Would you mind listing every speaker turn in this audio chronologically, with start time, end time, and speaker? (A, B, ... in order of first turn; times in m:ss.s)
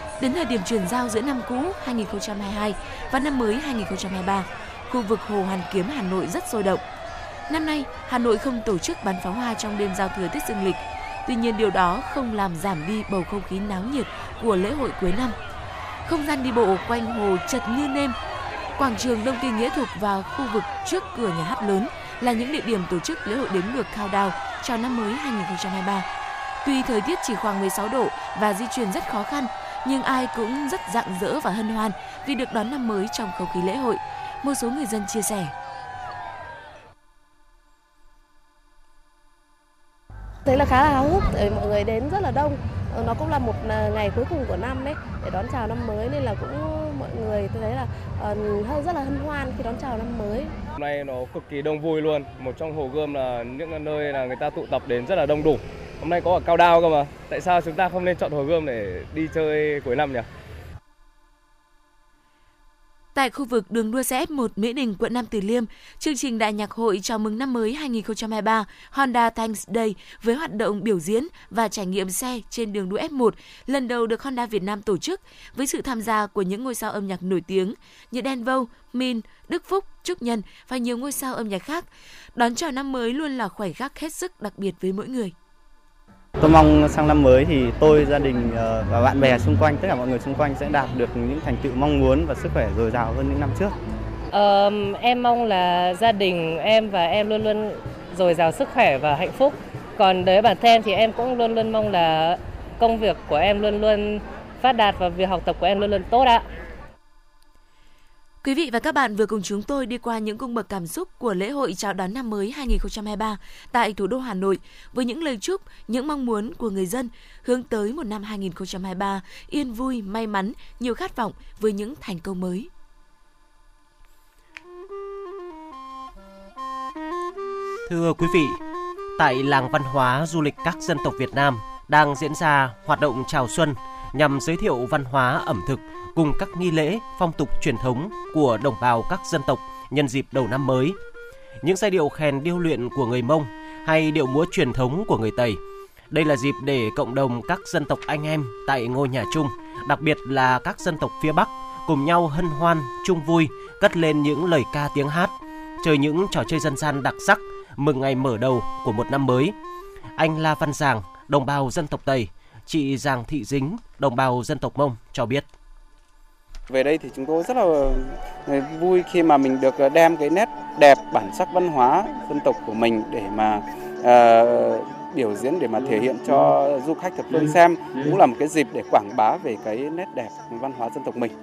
0:00.2-0:06.8 A
0:07.5-0:15.4 A
0:16.0-0:18.2 A
0:18.8-0:26.1 A
0:26.6-0:35.5 A
0:40.4-0:50.5 B
0:50.8-1:00.3 C
1:03.2-1:25.4 A
1:26.4-1:33.8 D
1:34.3-1:46.4 E
1:48.4-2:02.7 A
2:07.9-2:08.6 F
2:09.2-2:21.0 F
2:21.6-2:25.6 F
2:26.1-2:39.6 F
2:40.2-2:45.5 F
2:46.7-3:01.3 G